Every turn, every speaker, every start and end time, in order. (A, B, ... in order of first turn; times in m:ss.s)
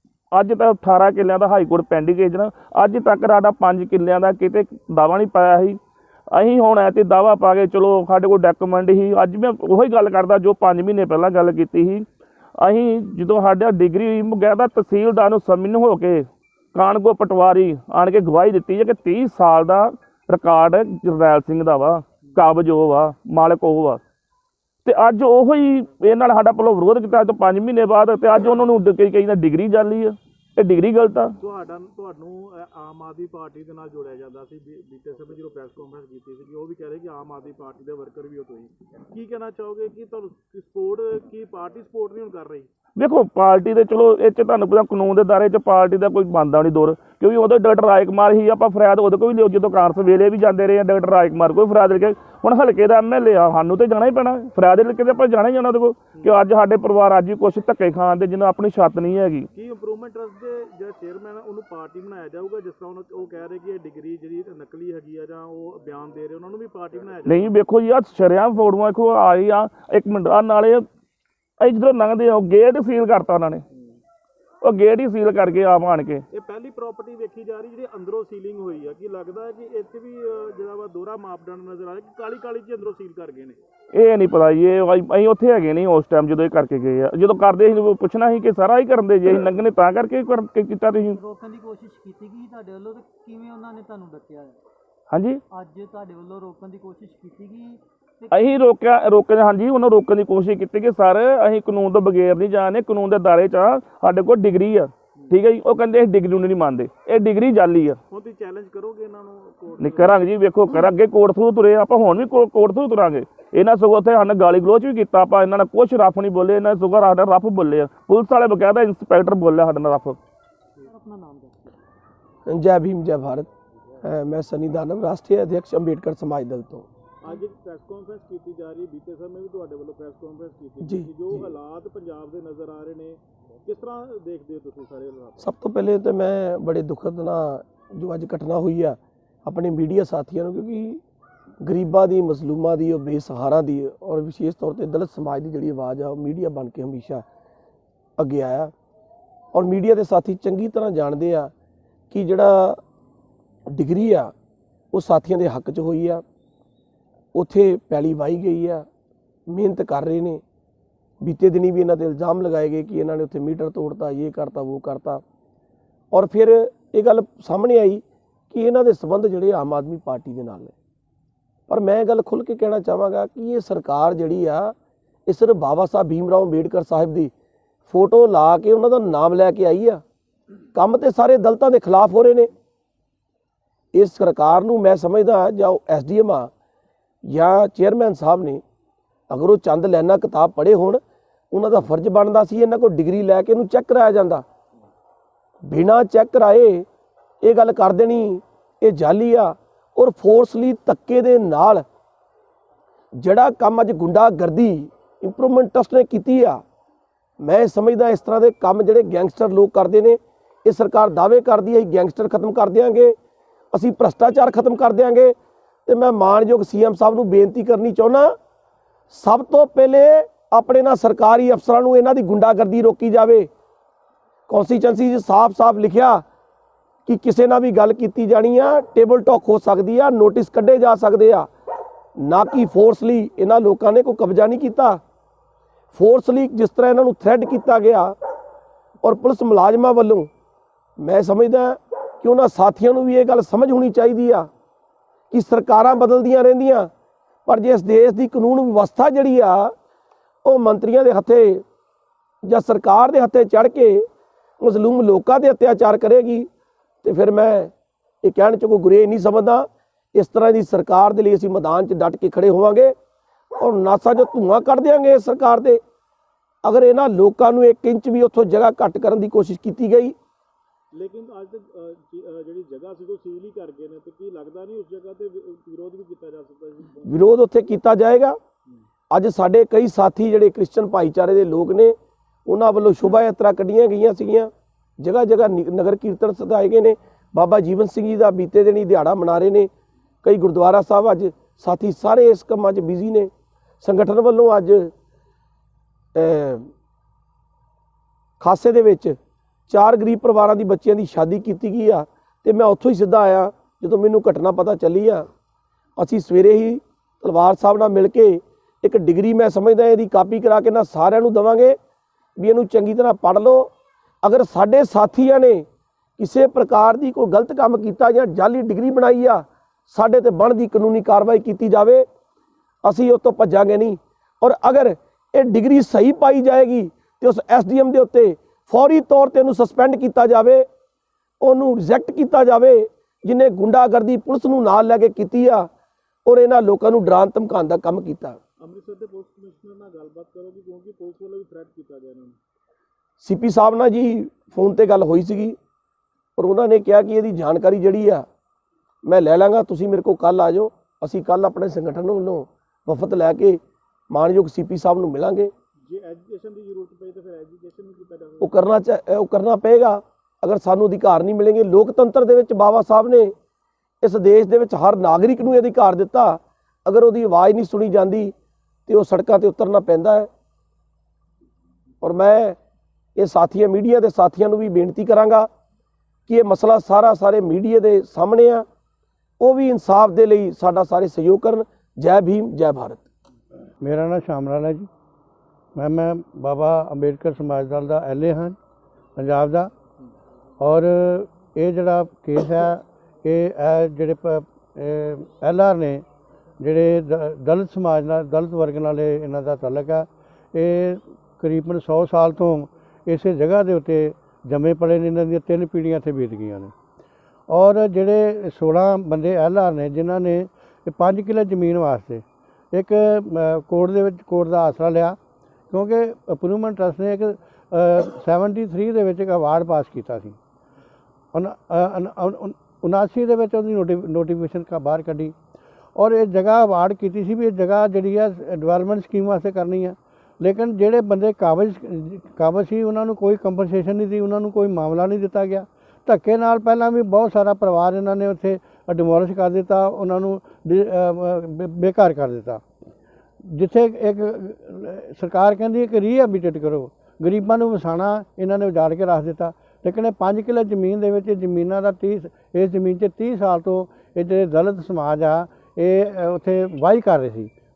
0:00.3-0:05.8 A
0:06.3-0:12.0 A
0:12.6-0:24.0 A
0:24.8-0:31.3 A
0:31.4-0:42.7 B
0:43.0-0:59.5 A
0:59.5-1:07.5 B
1:07.2-1:10.9 A
1:11.6-1:13.6 A
1:13.7-1:14.0 B
1:14.6-1:16.2 A
1:16.3-1:23.6 B
1:23.9-1:31.2 A
1:31.1-1:34.6 C
1:35.1-1:35.4 A
1:35.5-1:38.6 C
1:38.3-1:48.0 A
1:48.1-1:50.3 B
1:49.8-2:00.2 A
2:00.8-2:01.8 C
2:02.5-2:03.5 D
2:04.0-2:06.9 D
2:07.2-2:15.5 B
2:10.8-2:11.5 D
2:15.4-2:21.0 D
2:21.6-2:27.2 D
2:28.2-2:28.7 D
2:29.5-2:31.5 D
2:32.1-2:32.8 D
2:33.7-2:34.3 D
2:34.9-2:36.2 D
2:37.3-2:38.8 D
2:39.5-2:40.4 D
2:41.2-2:45.2 D
2:46.1-2:50.7 D
2:51.7-2:54.7 D
2:55.3-2:57.3 D
2:57.9-3:00.0 D
3:00.7-3:02.5 D
3:03.9-3:06.5 D
3:07.2-3:08.6 D
3:09.3-3:14.4 D
3:15.6-3:16.9 D
3:17.4-3:21.8 D
3:23.2-3:26.6 D
3:27.4-3:33.2 D
3:33.7-3:35.3 D
3:35.8-3:38.4 D
3:39.1-3:43.5 D
3:44.5-3:46.2 D
3:47.0-3:51.5 D
3:52.2-3:55.0 D
3:55.9-3:58.2 D
3:59.0-4:00.3 D
4:01.0-4:04.5 D
4:05.3-4:06.9 D
4:07.4-4:09.7 D
4:10.4-4:11.6 D
4:12.4-4:14.0 D
4:14.6-4:16.5 D
4:17.0-4:17.7 D
4:18.2-4:22.9 D
4:23.6-4:25.8 D
4:26.6-4:30.1 D
4:30.9-4:37.4 B
4:37.1-4:38.4 D
4:39.1-4:49.7 D
4:50.2-4:53.3 D
4:53.8-4:54.9 D
4:56.1-4:56.7 D
4:58.4-4:59.2 D
4:59.7-5:05.3 D
5:06.0-5:11.8 D
5:12.4-5:13.7 D
5:14.2-5:15.6 D
5:16.2-5:22.0 D
5:22.8-5:30.6 D
5:31.4-5:35.7 D
5:36.2-5:38.4 D
5:38.6-5:42.4 B
5:43.2-5:45.6 D
5:46.4-5:48.3 D
5:49.0-5:55.5 D
5:55.8-5:58.6 B
5:58.4-6:03.3 D
6:04.0-6:08.3 D
6:08.9-6:10.3 D
6:12.0-6:12.6 D
6:13.2-6:15.5 D
6:16.3-6:18.6 D
6:19.4-6:23.0 D
6:23.8-6:24.9 E
6:25.8-6:28.6 E
6:29.2-6:29.7 E
6:30.6-6:36.0 E
6:36.6-6:46.7 E
6:47.5-6:55.2 E
6:55.7-7:00.4 E
7:01.3-7:05.3 E
7:06.0-7:22.6 E
7:23.4-7:37.5 E